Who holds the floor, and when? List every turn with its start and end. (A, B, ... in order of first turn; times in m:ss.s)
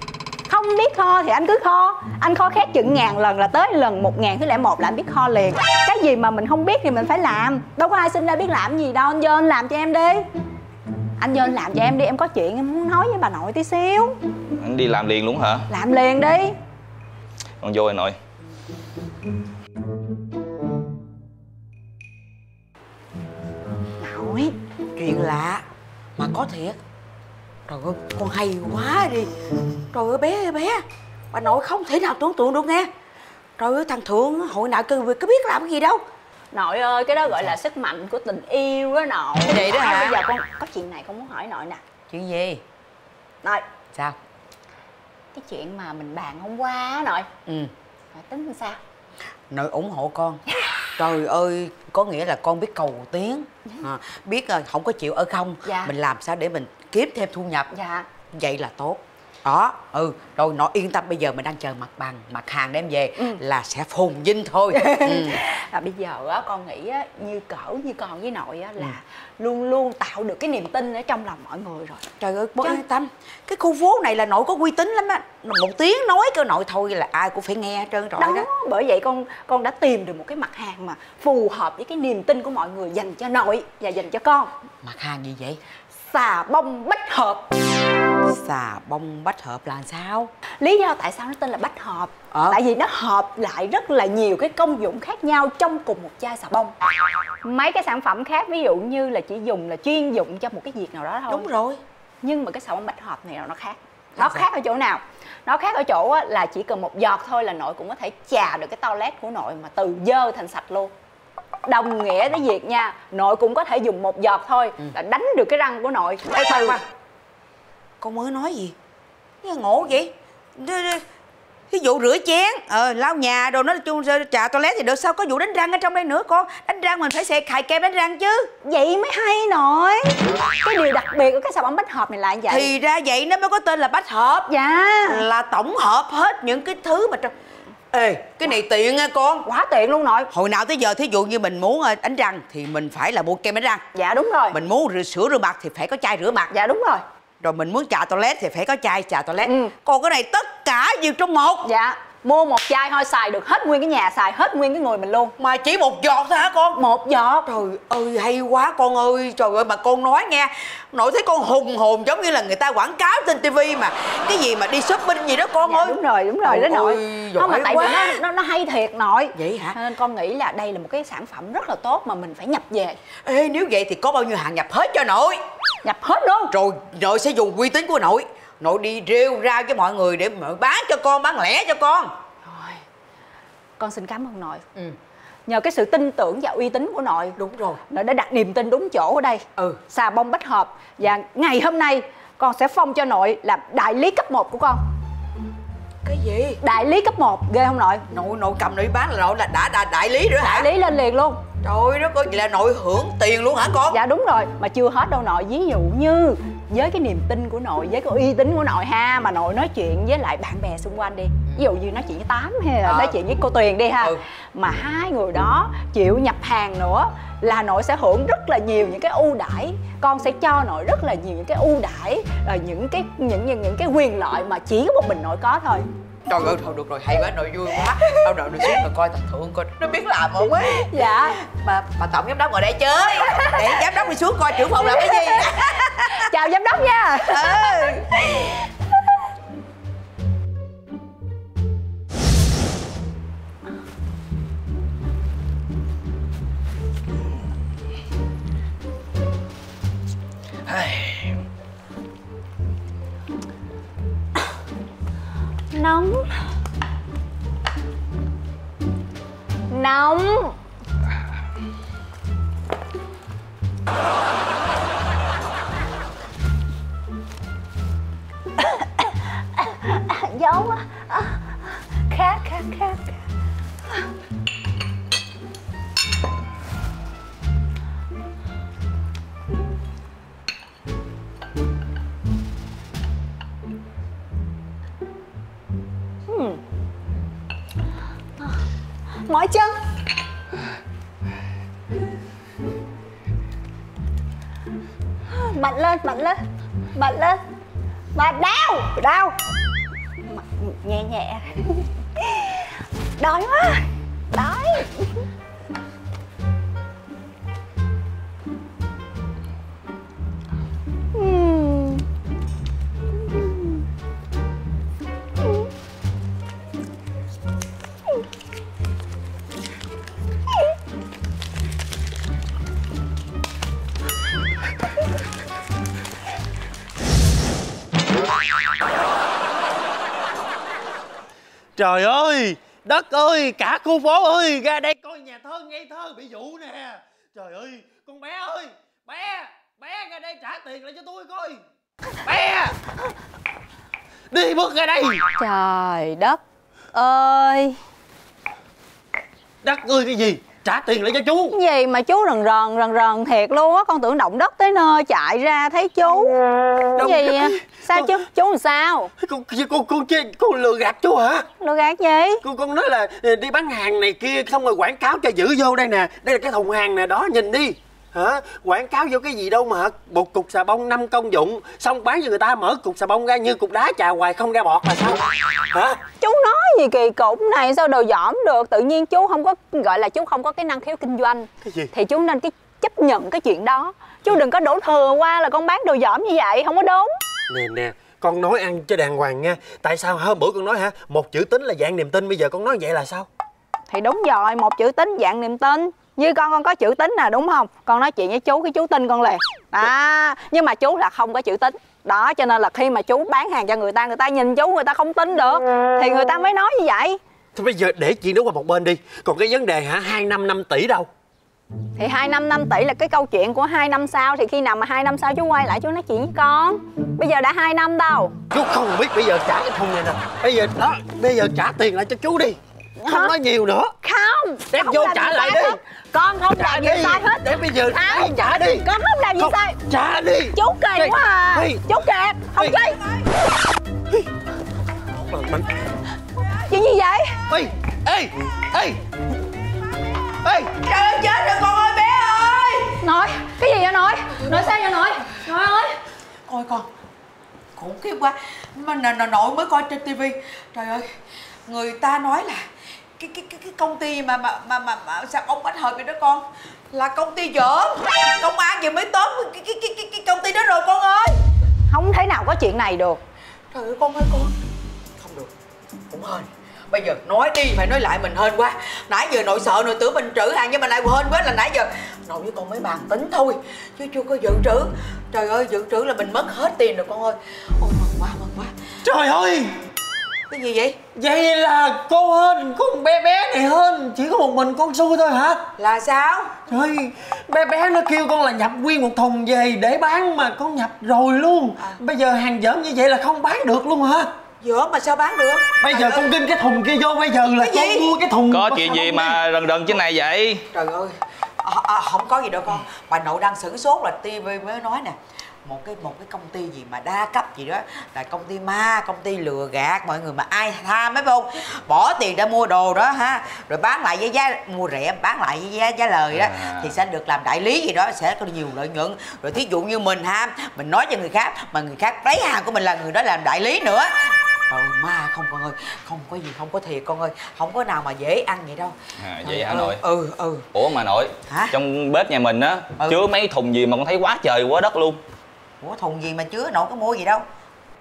0:00.5-0:10.2 A
0:11.2-0:14.2 A
0:14.6-0:15.7 B
0:15.7-0:16.5 A
0:17.6-0:18.2 B
0:24.0-0:24.6 A
0:25.0-0:25.6 C
0:26.2-0:26.8 C
0:27.7-0:29.3 C
0:29.9-0:32.9 C
0:33.6-0:36.0 C
0:36.5-0:41.8 A
0:39.4-0:40.2 C
0:42.1-0:42.6 C
0:45.3-0:47.3 A
0:47.5-0:47.7 C
0:48.1-0:48.8 A
0:49.5-0:50.4 C
0:50.6-0:50.9 A
0:51.0-0:57.7 C
0:55.7-0:55.9 A
0:57.7-0:58.1 A
0:58.3-1:05.4 C
1:04.7-1:12.0 A
1:12.2-1:18.5 C
1:18.2-1:24.5 A
1:24.8-1:25.6 C
1:26.0-1:27.4 A
1:28.2-1:30.3 C
1:30.6-1:36.7 A
1:32.3-1:32.6 C
1:37.4-1:41.5 A
1:41.3-1:41.8 C
1:42.2-1:50.9 A
1:44.2-1:44.5 C
1:51.6-1:56.8 A
1:56.3-1:56.8 C
1:58.0-1:58.8 C
1:59.4-2:01.0 C
2:01.7-2:08.5 C
2:08.6-2:12.7 A
2:12.5-2:14.5 C
2:14.5-2:15.2 A
2:15.0-2:17.3 C
2:17.9-2:19.5 C
2:19.4-2:20.3 A
2:20.3-2:23.8 C
2:24.0-2:24.6 A
2:24.5-2:26.5 C
2:26.5-2:27.0 A
2:27.4-2:31.7 C
2:29.4-2:29.7 A
2:31.6-2:35.3 A
2:35.4-2:36.8 C
2:36.8-2:37.5 A
2:37.4-2:48.2 C
2:45.6-2:53.0 A
2:49.4-2:49.8 C
2:53.2-2:55.4 C
2:55.8-2:56.5 A
2:56.5-3:02.1 C
3:02.4-3:02.8 A
3:03.8-3:04.6 A
3:05.5-3:07.4 A
3:07.4-3:07.8 C
3:07.9-3:14.8 A
3:16.0-3:16.6 C
3:16.6-3:18.0 A
3:18.1-3:20.7 C
3:20.4-3:21.4 A
3:21.6-3:24.0 C
3:23.9-3:45.9 A
3:32.8-3:33.2 C
3:46.3-3:56.3 C
3:50.6-3:51.4 A
3:53.2-3:53.8 A
3:54.7-3:58.6 A
3:57.3-3:58.1 C
4:10.7-4:11.3 B
4:15.7-4:16.4 A
4:19.7-4:20.6 A
4:28.6-4:33.2 A
4:46.3-4:46.6 A
4:49.2-4:49.8 A
4:55.3-4:56.4 A
4:57.0-4:57.4 A
4:58.1-4:59.4 A
5:00.3-5:05.2 A
5:11.1-5:12.0 A
5:13.3-5:13.7 A
5:31.8-5:41.6 D
5:42.2-5:42.8 D
5:44.3-5:45.2 D
5:45.4-5:46.4 A
5:46.9-5:47.8 A
5:49.6-5:51.5 D
5:51.5-5:56.4 A
5:57.0-5:58.1 D
5:57.0-5:59.1 A
5:59.2-6:01.5 D
6:01.6-6:02.4 A
6:02.4-6:16.0 D
6:16.2-6:27.1 A
6:21.6-6:21.9 D
6:27.5-6:33.3 D
6:33.9-6:47.2 A
6:47.6-6:51.1 D
6:52.0-6:58.3 A
6:58.5-7:03.9 D
7:03.0-7:03.3 A
7:04.0-7:09.8 A
7:04.7-7:05.8 D
7:06.5-7:08.9 D
7:09.4-7:11.9 D
7:10.5-7:13.0 A
7:15.2-7:15.7 D
7:16.7-7:17.4 A
7:17.5-7:19.0 D
7:20.4-7:20.7 D
7:20.8-7:23.0 C
7:23.0-7:26.0 A
7:24.4-7:24.8 C
7:26.5-7:26.9 C
7:27.8-7:31.1 C
7:31.7-7:41.4 C
7:41.9-7:43.2 A
7:43.7-7:44.5 C
7:45.2-7:45.5 C
7:46.1-7:58.8 C
7:59.0-7:59.8 D
8:00.5-8:01.0 C
8:01.1-8:05.7 D
8:05.8-8:06.6 C
8:06.7-8:14.3 D
8:14.6-8:16.3 C
8:15.8-8:19.4 D
8:17.6-8:18.1 C
8:18.5-8:20.7 B
8:20.7-8:50.7 C
8:36.3-8:36.9 B
8:49.2-8:50.0 B
8:50.7-8:55.2 B
8:51.5-8:51.8 C
8:55.8-8:57.4 C